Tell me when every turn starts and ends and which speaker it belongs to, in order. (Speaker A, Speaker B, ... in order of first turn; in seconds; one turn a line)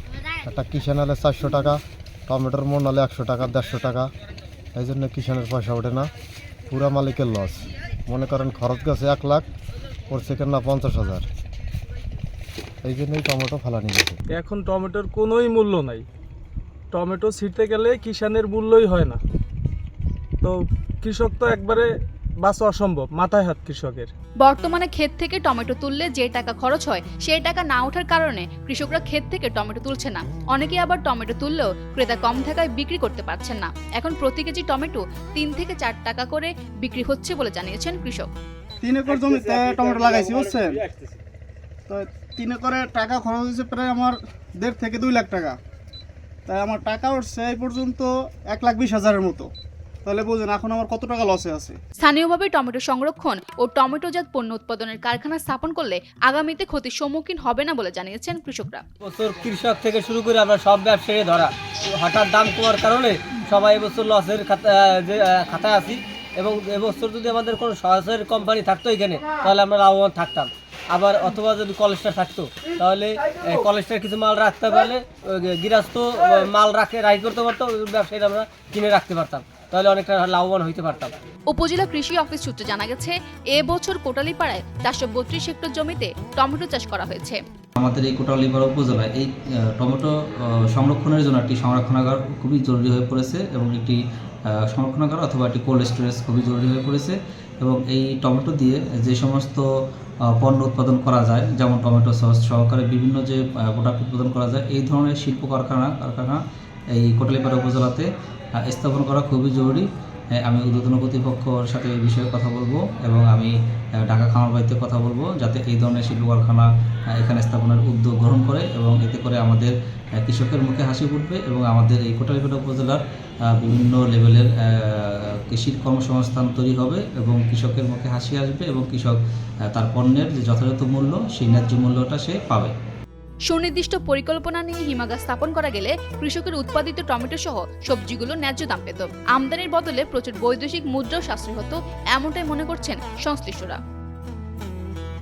Speaker A: 0.3-4.1
Speaker A: 4.8-6.1
Speaker A: 6.7-9.5
Speaker A: 10.1-11.2
Speaker A: 12.8-14.2
Speaker B: 14.3-16.0
Speaker B: 16.9-19.2
Speaker B: 20.4-21.9
Speaker B: 22.4-24.1
Speaker C: 22.4-24.0
Speaker D: 24.4-38.3
Speaker C: 38.8-40.8
Speaker E: 39.1-41.2
Speaker C: 41.9-45.5
Speaker C: 46.5-49.5
Speaker C: 50.0-51.8
Speaker D: 52.0-58.8
Speaker E: 59.0-81.1
Speaker D: 81.5-87.4
Speaker F: 87.8-99.6
Speaker F: 100.2-106.4
Speaker F: 106.9-108.1
Speaker F: 108.6-113.5
Speaker F: 114.1-129.2
Speaker F: 129.7-132.7
Speaker D: 133.5-143.8